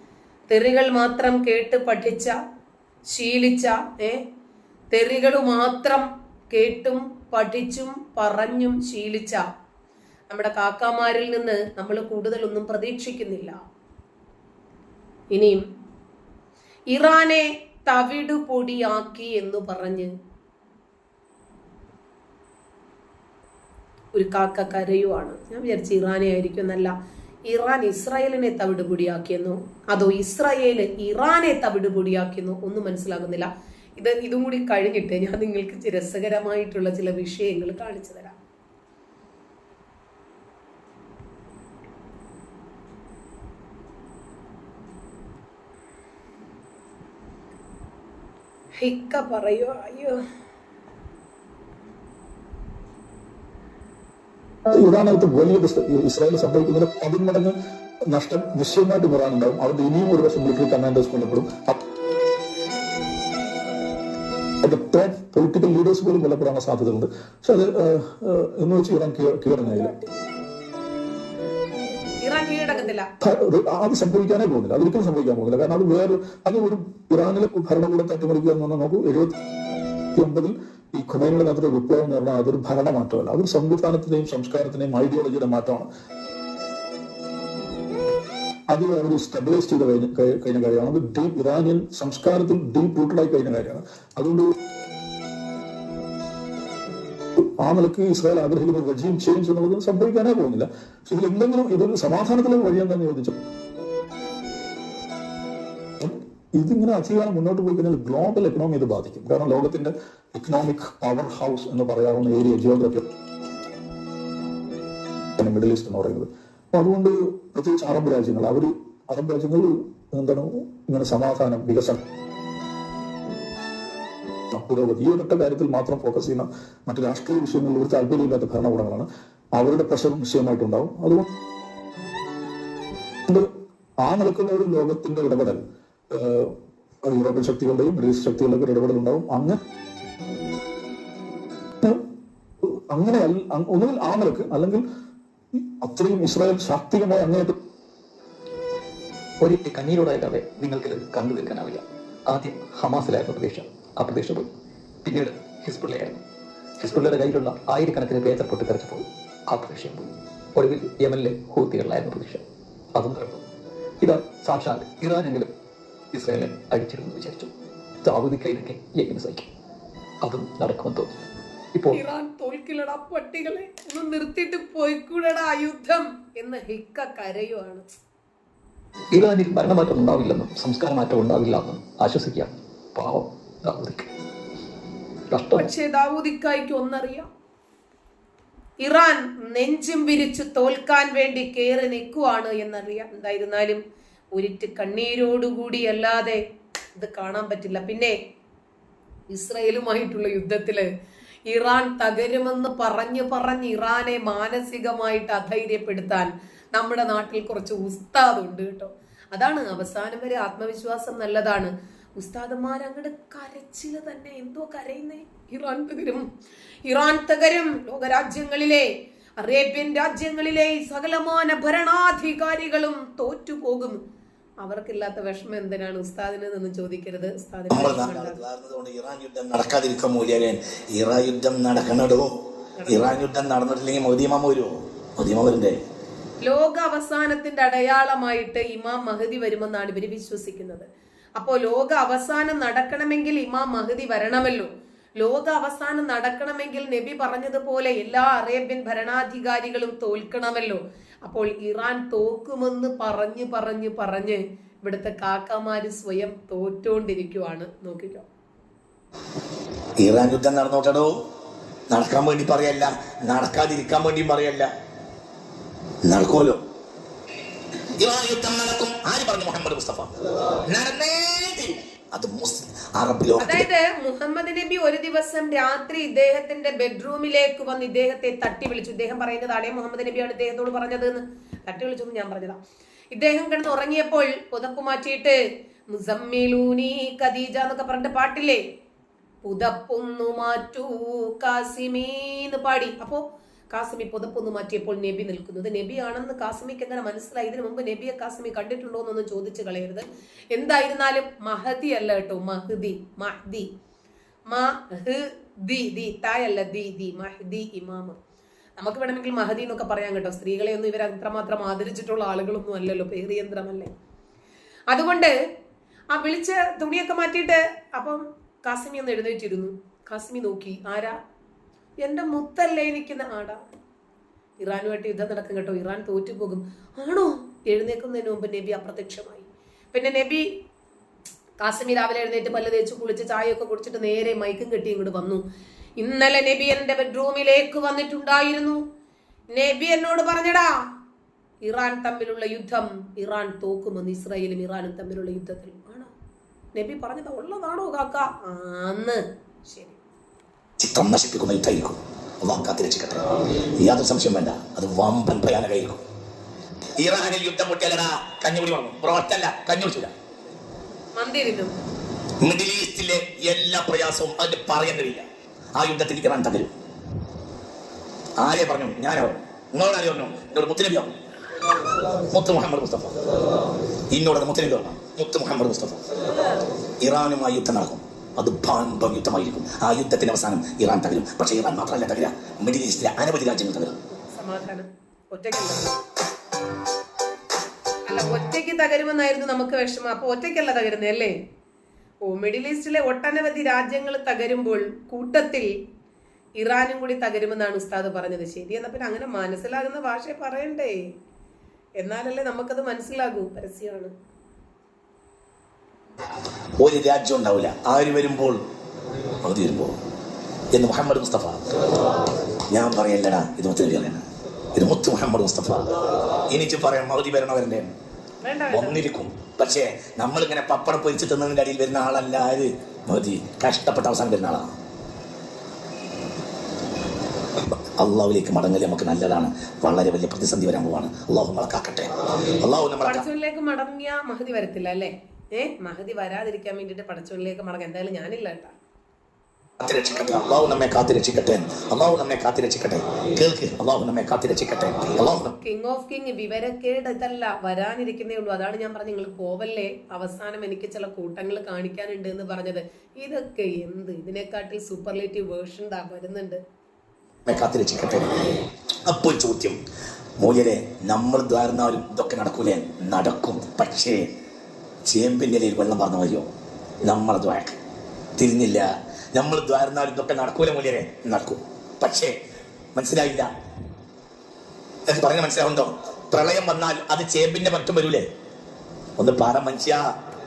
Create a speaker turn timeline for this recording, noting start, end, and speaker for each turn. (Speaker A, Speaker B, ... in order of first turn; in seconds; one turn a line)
Speaker A: 0.5-2.4
Speaker A: 3.1-4.2
Speaker A: 4.9-9.4
Speaker A: 10.3-13.6
Speaker A: 15.3-15.6
Speaker A: 16.9-20.1
Speaker A: 24.1-26.9
Speaker A: 27.5-38.4
Speaker A: 48.8-50.2
Speaker B: 54.7-57.5
Speaker B: 58.1-61.8
Speaker B: 64.6-70.0
Speaker A: 72.2-73.1
Speaker B: 73.2-79.3
Speaker B: 80.2-85.9
Speaker B: 88.7-94.5
Speaker B: 97.6-103.3
Speaker B: 106.0-113.0
Speaker B: 115.4-122.0
Speaker B: 124.5-131.3
Speaker B: 134.1-135.6
Speaker B: 136.1-139.6
Speaker B: 142.9-144.8
Speaker B: 145.6-147.5
Speaker C: 149.4-154.5
Speaker C: 155.0-156.2
Speaker C: 156.8-163.4
Speaker C: 164.0-165.5
Speaker C: 166.1-167.5
Speaker C: 168.0-169.5
Speaker C: 170.2-171.1
Speaker C: 171.7-172.0
Speaker A: 171.9-177.9
Speaker C: 179.1-184.1
Speaker C: 185.3-185.7
Speaker A: 185.5-187.3
Speaker A: 188.8-193.8
Speaker A: 194.3-196.4
Speaker A: 197.0-198.2
Speaker A: 199.3-200.9
Speaker A: 201.5-216.3
Speaker A: 216.9-224.0
Speaker A: 224.6-228.4
Speaker D: 227.7-232.3
Speaker A: 232.8-233.2
Speaker D: 232.9-235.8
Speaker A: 236.4-240.9
Speaker A: 241.4-258.3
Speaker D: 260.0-261.1
Speaker D: 261.9-264.7
Speaker D: 266.1-266.6
Speaker D: 268.0-270.1
Speaker D: 270.7-273.7
Speaker A: 273.4-282.6
Speaker A: 283.1-285.4
Speaker A: 285.9-288.6
Speaker A: 289.4-293.2
Speaker A: 293.7-303.7
Speaker A: 304.5-308.2
Speaker A: 308.8-313.9
Speaker A: 314.9-315.4
Speaker A: 316.1-321.2
Speaker A: 322.0-323.6
Speaker A: 324.6-330.5
Speaker A: 331.6-335.4
Speaker A: 336.0-338.8
Speaker A: 339.5-340.7
Speaker A: 341.6-346.1
Speaker A: 346.8-350.0
Speaker D: 350.8-353.3
Speaker D: 353.8-356.0
Speaker D: 357.0-360.1
Speaker A: 361.2-361.7
Speaker D: 362.4-365.2
Speaker D: 365.8-366.7
Speaker D: 368.4-371.1
Speaker D: 372.3-373.2
Speaker D: 374.1-376.0
Speaker D: 377.0-383.9
Speaker A: 384.1-385.9
Speaker A: 388.1-391.4
Speaker A: 392.2-395.7
Speaker A: 396.6-401.0
Speaker A: 402.0-404.1
Speaker D: 406.8-408.6
Speaker D: 409.4-409.9
Speaker D: 410.7-411.6
Speaker D: 412.7-414.2
Speaker D: 414.8-415.9
Speaker D: 416.5-417.9
Speaker A: 418.4-419.0
Speaker D: 418.7-424.7
Speaker D: 428.0-433.2
Speaker A: 433.1-438.7
Speaker D: 439.8-445.5
Speaker A: 445.5-456.6
Speaker D: 457.5-458.3
Speaker D: 459.1-459.8
Speaker D: 460.4-464.2
Speaker D: 465.1-466.5
Speaker D: 467.0-467.8
Speaker D: 468.4-472.4
Speaker D: 472.9-473.5
Speaker D: 475.1-478.3
Speaker D: 479.2-480.0